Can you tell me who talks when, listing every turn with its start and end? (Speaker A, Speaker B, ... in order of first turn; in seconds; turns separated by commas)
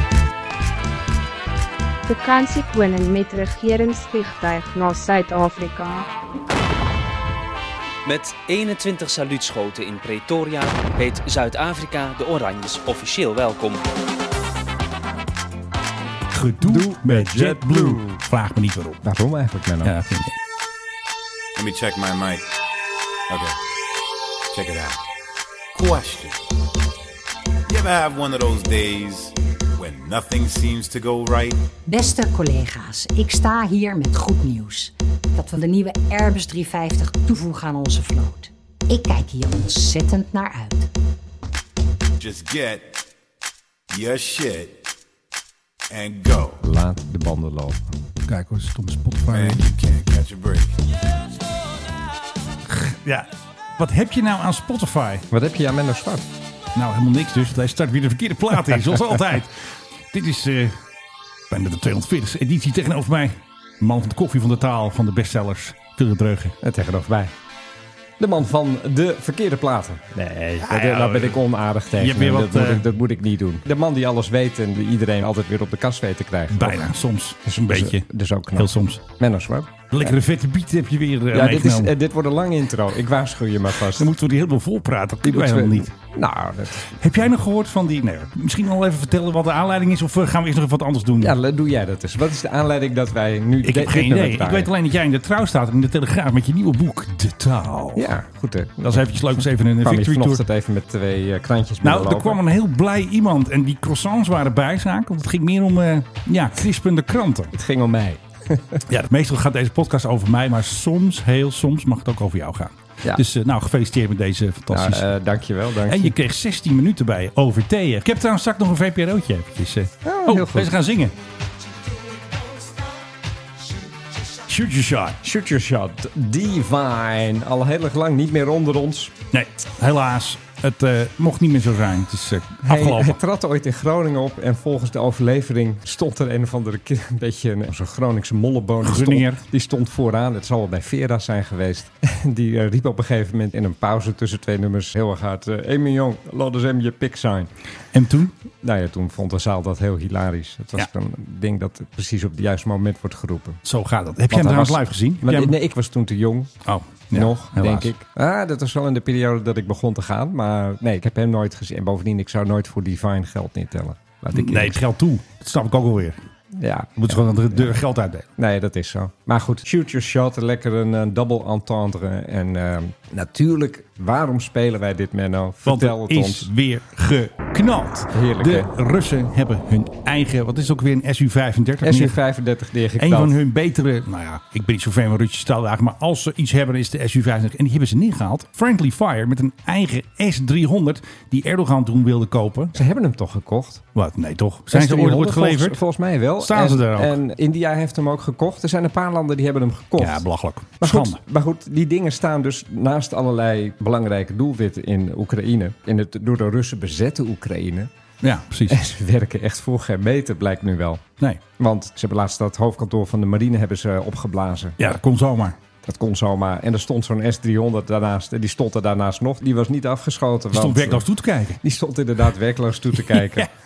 Speaker A: 2.0-6.1, Speaker B: 8.0-13.9, Speaker C: 16.3-19.0, Speaker D: 16.6-18.2, Speaker D: 19.0-19.9, Speaker C: 19.8-20.3, Speaker E: 21.6-22.5, Speaker E: 23.3-23.6, Speaker E: 24.5-25.0, Speaker E: 25.7-26.4, Speaker E: 27.7-31.7, Speaker F: 31.9-40.9, Speaker E: 42.2-43.0, Speaker E: 43.9-44.8, Speaker E: 45.9-46.6, Speaker D: 46.6-47.9, Speaker C: 48.2-49.6, Speaker E: 49.3-50.8, Speaker C: 52.7-55.2, Speaker D: 55.3-56.3, Speaker C: 56.7-60.8, Speaker C: 61.5-66.5, Speaker D: 66.6-67.3, Speaker D: 68.2-76.8, Speaker C: 70.6-72.8, Speaker C: 76.5-79.0, Speaker D: 77.5-80.2, Speaker C: 79.9-81.9, Speaker D: 81.3-84.1, Speaker C: 83.9-85.9, Speaker D: 85.2-87.0, Speaker C: 87.0-91.3, Speaker D: 91.2-94.7, Speaker C: 93.6-98.2, Speaker D: 98.0-102.4, Speaker C: 98.9-100.4, Speaker C: 101.8-107.5, Speaker D: 107.5-108.8, Speaker C: 108.9-115.1, Speaker D: 114.7-116.2, Speaker C: 115.8-121.1, Speaker D: 120.0-120.7, Speaker C: 124.5-125.2, Speaker D: 125.2-129.1, Speaker C: 129.3-133.2, Speaker D: 132.7-147.5, Speaker C: 138.8-139.4, Speaker C: 147.9-148.3, Speaker D: 148.6-153.6, Speaker C: 153.7-155.6, Speaker D: 154.3-156.5, Speaker C: 156.6-157.9, Speaker D: 157.1-164.8, Speaker C: 164.3-166.2, Speaker D: 166.5-167.8, Speaker C: 167.0-168.2, Speaker D: 168.4-176.5, Speaker C: 175.7-182.2, Speaker D: 178.1-178.7, Speaker D: 181.8-183.4, Speaker C: 183.0-192.8, Speaker D: 192.7-193.8, Speaker C: 193.9-195.8, Speaker D: 194.7-200.2, Speaker C: 196.4-197.2, Speaker C: 200.0-201.2, Speaker D: 200.8-207.9, Speaker C: 208.2-208.8, Speaker D: 208.7-215.0, Speaker C: 214.8-215.6, Speaker D: 215.8-221.1, Speaker C: 220.5-221.6, Speaker D: 221.6-223.5, Speaker C: 223.1-223.5